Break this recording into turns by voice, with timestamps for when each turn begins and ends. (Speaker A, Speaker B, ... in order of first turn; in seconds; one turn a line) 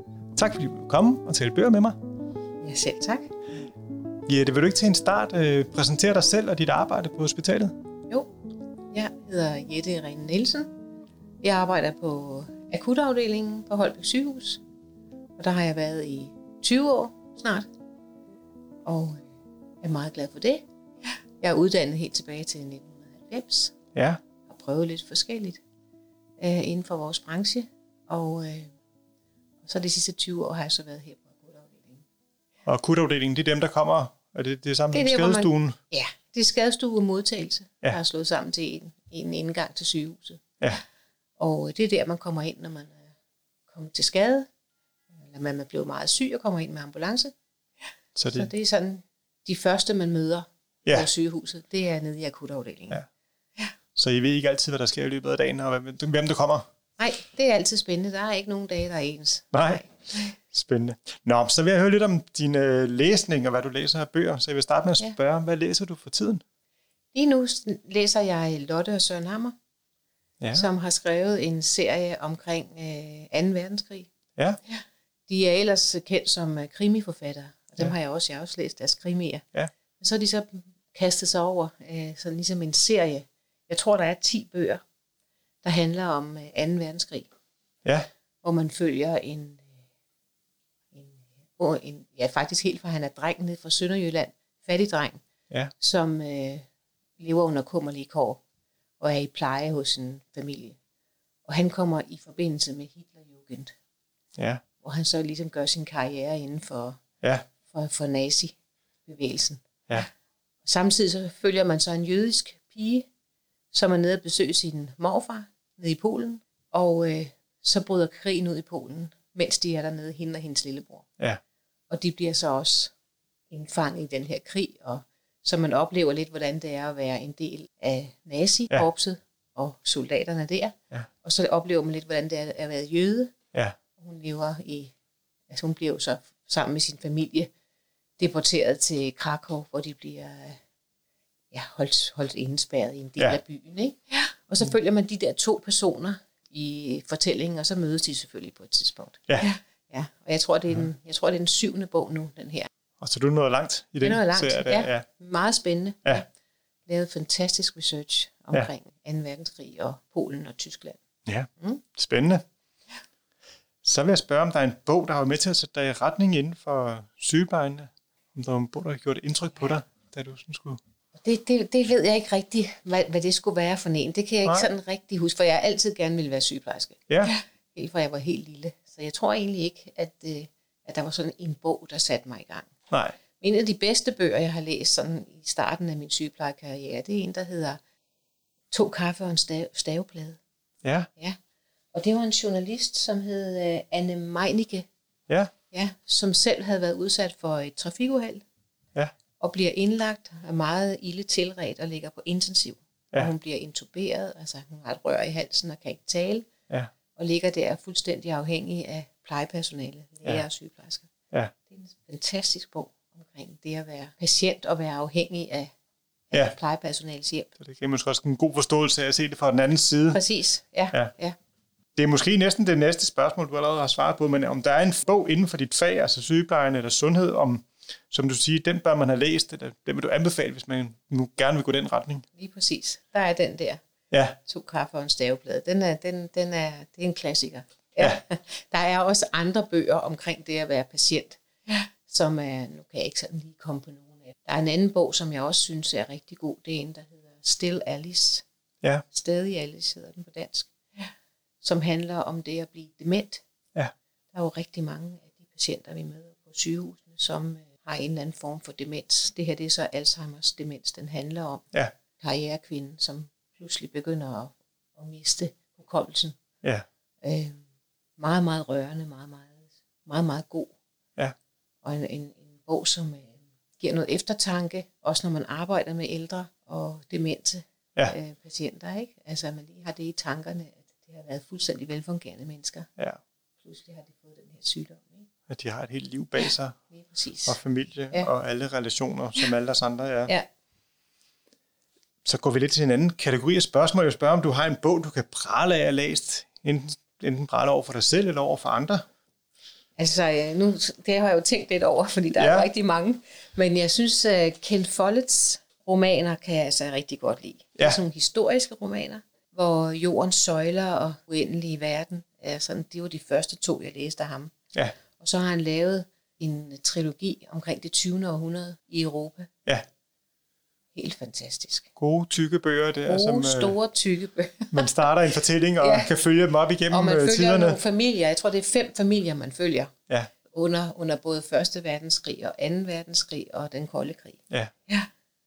Speaker A: 0.3-2.0
Speaker B: 2.6-3.3
Speaker A: 4.3-7.7
Speaker B: 8.9-10.7
Speaker B: 11.4-14.6
Speaker B: 15.4-17.7
Speaker B: 18.9-19.2
Speaker B: 19.8-20.6
Speaker B: 21.4-23.8
Speaker A: 23.9-24.2
Speaker B: 24.5-25.6
Speaker B: 26.4-28.7
Speaker B: 29.6-32.0
Speaker A: 32.7-35.8
Speaker B: 34.9-40.4
Speaker B: 41.4-43.1
Speaker B: 43.7-44.5
Speaker B: 45.2-47.3
Speaker A: 48.2-48.5
Speaker B: 48.3-53.0
Speaker A: 54.0-56.7
Speaker B: 57.0-60.3
Speaker A: 59.5-59.9
Speaker A: 60.4-66.4
Speaker B: 67.1-69.6
Speaker B: 70.5-74.1
Speaker B: 74.7-79.4
Speaker B: 80.0-84.8
Speaker B: 85.6-87.3
Speaker B: 88.4-89.7
Speaker B: 90.9-95.2
Speaker B: 95.8-96.7
Speaker B: 97.2-98.4
Speaker B: 99.0-100.8
Speaker B: 101.5-103.7
Speaker A: 104.4-104.6
Speaker B: 104.8-107.0
Speaker B: 107.7-110.1
Speaker B: 110.7-113.1
Speaker B: 113.7-121.1
Speaker B: 121.9-122.9
Speaker B: 123.5-133.3
Speaker B: 134.0-134.9
Speaker B: 135.5-137.5
Speaker B: 138.2-140.6
Speaker B: 141.5-152.7
Speaker A: 153.0-155.1
Speaker B: 154.0-156.3
Speaker B: 156.9-161.0
Speaker A: 161.3-162.4
Speaker A: 163.8-170.8
Speaker B: 171.2-182.7
Speaker A: 177.1-177.3
Speaker A: 182.9-183.2
Speaker B: 183.4-187.8
Speaker B: 188.7-190.4
Speaker A: 190.8-191.1
Speaker B: 191.9-194.9
Speaker B: 195.7-198.4
Speaker B: 199.4-206.5
Speaker B: 207.2-211.1
Speaker B: 211.7-215.7
Speaker B: 216.3-217.5
Speaker A: 217.6-220.2
Speaker B: 220.1-221.4
Speaker A: 222.0-232.2
Speaker B: 232.3-233.8
Speaker A: 234.1-234.4
Speaker B: 234.4-248.4
Speaker B: 249.1-251.1
Speaker B: 251.6-253.4
Speaker B: 254.3-261.7
Speaker B: 262.2-266.4
Speaker B: 267.2-267.6
Speaker B: 268.2-270.7
Speaker B: 271.8-282.9
Speaker B: 283.6-285.3
Speaker A: 285.5-286.8
Speaker B: 286.4-287.6
Speaker A: 287.5-290.3
Speaker A: 292.2-299.0
Speaker B: 300.0-314.5
Speaker A: 302.3-302.7
Speaker B: 315.2-319.5
Speaker B: 320.9-321.9
Speaker A: 322.0-323.8
Speaker B: 323.1-325.1
Speaker A: 324.7-327.8
Speaker B: 325.8-326.1
Speaker B: 326.9-329.9
Speaker B: 330.5-335.1